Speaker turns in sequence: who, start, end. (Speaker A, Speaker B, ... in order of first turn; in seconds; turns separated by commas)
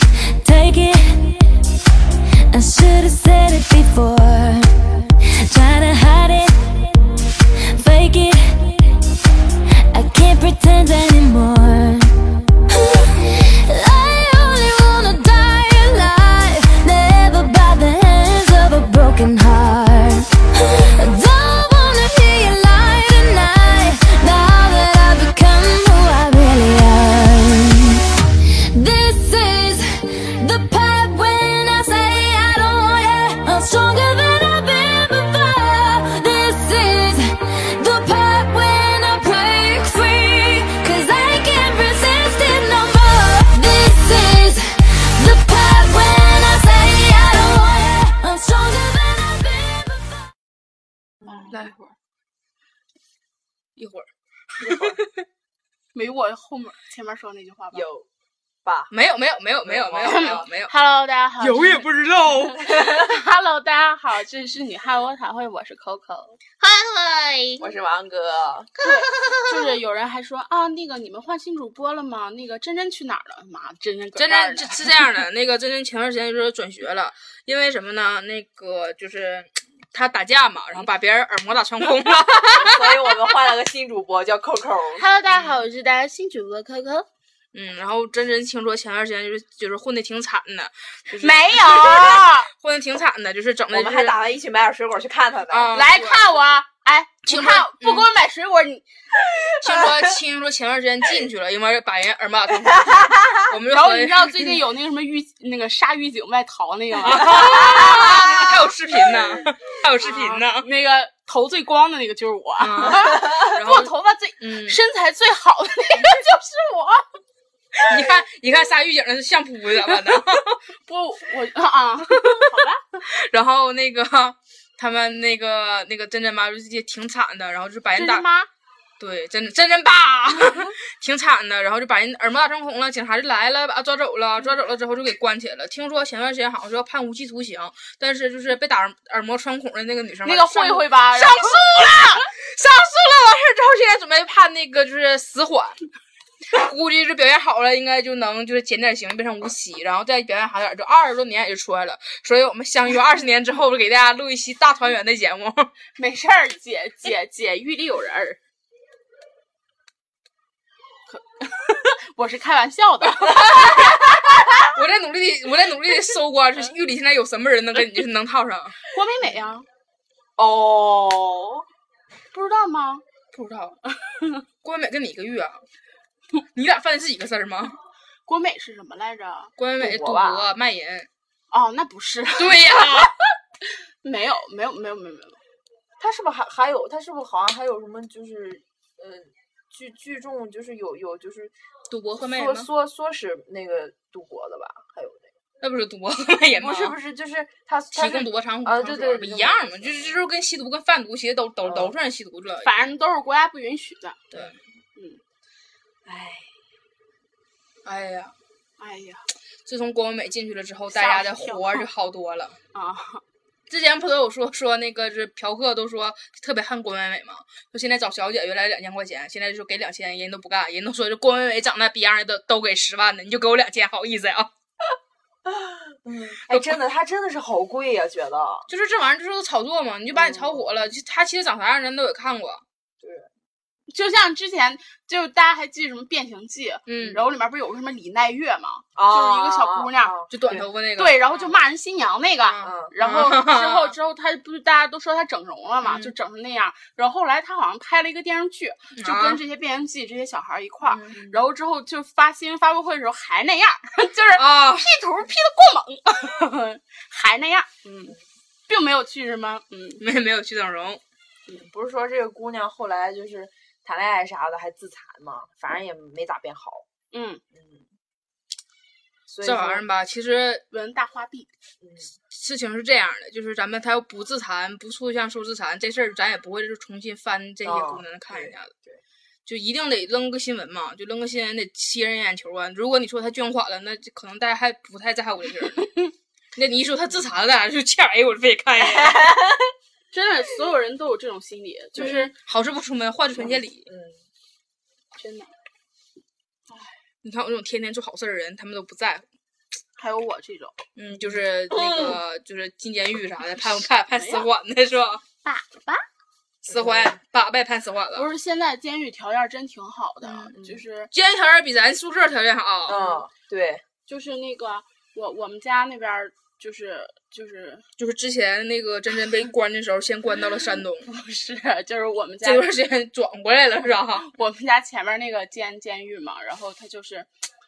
Speaker A: 0.4-1.5, Speaker A: 2.5-9.0, Speaker A: 9.9-28.1, Speaker A: 28.7-50.3, Speaker B: 51.2-51.9, Speaker C: 51.5-51.8, Speaker C: 53.8-55.1, Speaker D: 54.6-55.0, Speaker B: 55.9-57.9, Speaker D: 57.7-58.1, Speaker D: 58.6-58.9, Speaker C: 58.9-60.7, Speaker D: 59.6-60.5, Speaker B: 60.0-61.9, Speaker C: 61.4-62.6, Speaker B: 62.5-66.5, Speaker D: 62.6-63.0, Speaker B: 67.2-67.5, Speaker D: 67.6-68.7, Speaker B: 68.8-74.9, Speaker C: 74.2-83.1, Speaker D: 82.5-85.1, Speaker B: 85.0-87.1, Speaker C: 85.3-85.6, Speaker C: 87.5-94.2, Speaker B: 91.1-92.5, Speaker D: 93.7-95.8, Speaker C: 95.5-96.4, Speaker B: 95.7-98.9, Speaker C: 97.3-98.1, Speaker D: 99.4-100.2, Speaker C: 99.6-104.5, Speaker D: 102.7-103.2, Speaker B: 103.7-108.5, Speaker C: 107.0-110.7, Speaker D: 107.5-108.4, Speaker B: 110.0-117.1, Speaker C: 112.6-114.8, Speaker C: 117.8-120.6, Speaker B: 120.8-123.0, Speaker C: 122.1-122.5, Speaker C: 123.1-128.3, Speaker B: 127.9-128.5, Speaker C: 129.0-145.8, Speaker B: 140.2-142.1, Speaker C: 146.5-155.7, Speaker B: 156.0-158.4, Speaker B: 161.1-164.3, Speaker C: 163.1-163.8, Speaker C: 164.6-168.8, Speaker B: 168.9-169.7, Speaker D: 170.4-171.7, Speaker B: 172.3-173.0, Speaker C: 173.3-173.8, Speaker B: 174.0-174.4, Speaker C: 174.6-175.6, Speaker C: 176.5-177.8, Speaker B: 178.3-179.5, Speaker C: 179.6-181.1, Speaker D: 179.8-180.5, Speaker B: 181.5-183.1, Speaker C: 182.4-183.1, Speaker B: 184.0-185.4, Speaker D: 186.0-191.5, Speaker C: 191.9-192.7, Speaker D: 192.2-195.3, Speaker C: 195.6-197.0, Speaker D: 196.6-200.2, Speaker C: 197.9-202.8, Speaker D: 201.6-202.0, Speaker B: 202.6-204.2, Speaker C: 204.3-204.6, Speaker B: 204.9-205.2, Speaker D: 206.1-206.5, Speaker C: 207.8-208.3, Speaker B: 208.8-209.3, Speaker C: 209.7-212.6, Speaker B: 210.9-211.9, Speaker B: 212.7-213.2, Speaker C: 213.7-224.5, Speaker D: 225.5-228.7, Speaker C: 226.5-226.8, Speaker C: 228.7-232.6, Speaker D: 230.1-230.8, Speaker D: 233.0-233.3, Speaker B: 233.9-240.2, Speaker C: 236.9-237.2, Speaker D: 237.0-237.3, Speaker D: 238.9-240.7, Speaker C: 240.3-241.7, Speaker B: 241.0-258.2, Speaker C: 242.4-244.0, Speaker D: 242.6-242.9, Speaker C: 245.8-246.2, Speaker C: 249.0-249.4, Speaker C: 250.8-251.4, Speaker C: 254.4-254.9, Speaker B: 258.7-260.0, Speaker C: 260.0-261.0, Speaker D: 261.5-266.9, Speaker B: 267.1-267.4, Speaker D: 267.5-267.9, Speaker D: 269.3-269.9, Speaker C: 269.4-270.6, Speaker B: 270.7-271.5, Speaker D: 271.8-272.1, Speaker C: 272.3-278.7, Speaker D: 277.6-279.0, Speaker C: 279.5-286.0, Speaker C: 286.6-289.4, Speaker D: 288.8-289.5, Speaker B: 290.1-292.3, Speaker D: 291.9-292.3, Speaker C: 292.0-293.9, Speaker D: 293.4-294.2, Speaker B: 295.1-295.5, Speaker B: 296.7-296.9, Speaker C: 297.2-299.3, Speaker B: 300.0-300.8, Speaker C: 301.0-305.2, Speaker D: 301.2-302.2, Speaker B: 304.1-304.5, Speaker B: 305.4-306.0, Speaker D: 306.7-307.2, Speaker C: 306.7-308.3, Speaker B: 308.1-311.1, Speaker C: 310.2-310.5, Speaker D: 310.5-310.8, Speaker C: 311.1-313.0, Speaker D: 312.9-313.8, Speaker B: 312.9-313.3, Speaker B: 314.1-317.9, Speaker C: 318.0-321.1, Speaker B: 321.0-322.7, Speaker C: 322.4-324.3, Speaker B: 324.1-327.3